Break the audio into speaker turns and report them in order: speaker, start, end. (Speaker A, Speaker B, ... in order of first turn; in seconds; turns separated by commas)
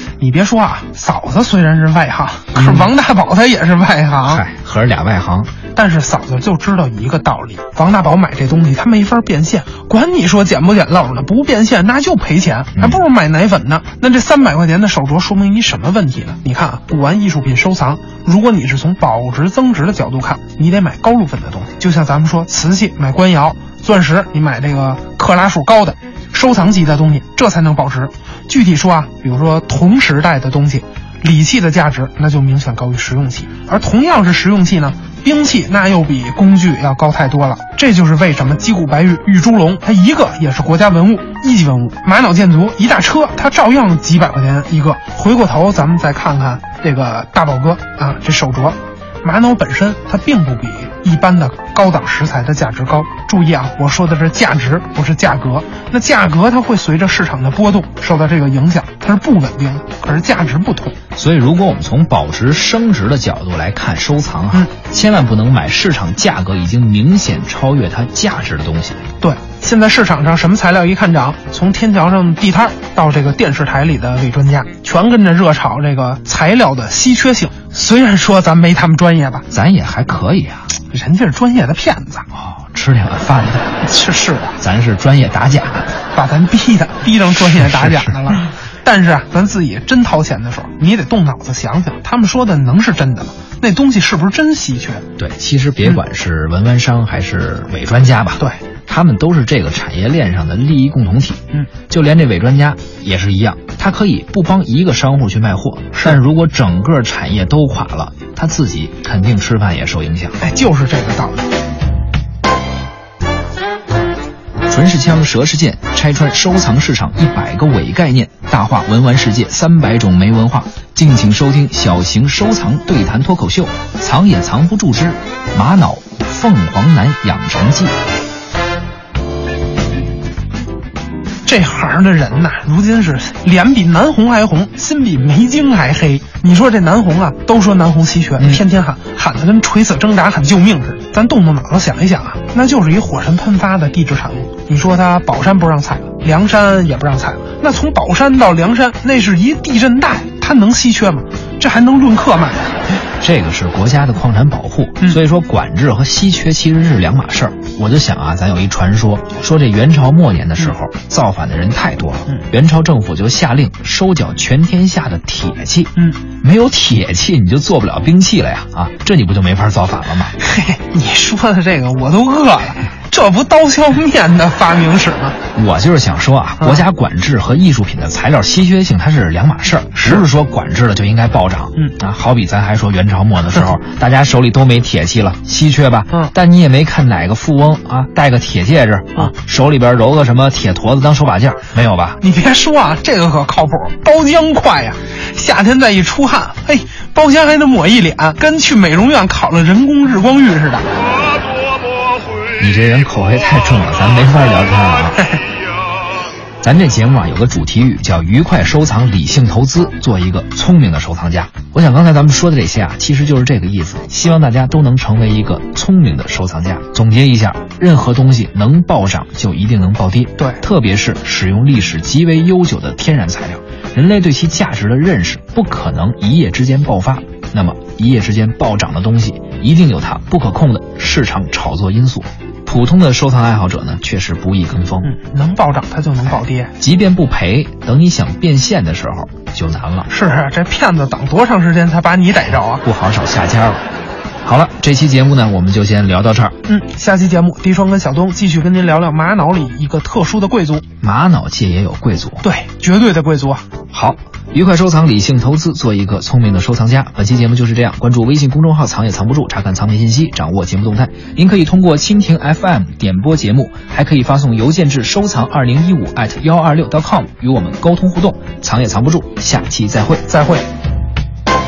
Speaker A: 0.2-4.4, Speaker B: 2.5-2.9, Speaker B: 4.2-5.5, Speaker A: 5.7-61.0, Speaker B: 61.1-69.0, Speaker A: 69.2-79.5, Speaker B: 79.5-80.7, Speaker A: 80.9-82.3, Speaker B: 82.3-83.8, Speaker A: 83.8-84.6, Speaker B: 84.6-85.9, Speaker A: 86.1-95.1, Speaker B: 87.6-88.1, Speaker B: 95.2-110.4, Speaker A: 110.4-111.4, Speaker B: 114.7-128.0, Speaker A: 131.4-152.8, Speaker B: 153.2-170.4, Speaker A: 170.4-175.4, Speaker B: 175.6-192.2, Speaker A: 180.0-180.3, Speaker A: 192.2-200.9, Speaker B: 202.6-205.3, Speaker B: 206.6-235.1, Speaker A: 220.4-220.6, Speaker A: 235.0-236.7, Speaker B: 236.8-240.1, Speaker A: 240.1-242.8, Speaker B: 242.8-243.8, Speaker B: 244.4-246.6, Speaker A: 246.7-250.8, Speaker B: 251.0-252.4, Speaker A: 252.4-253.7, Speaker B: 253.9-270.2, Speaker A: 270.3-270.7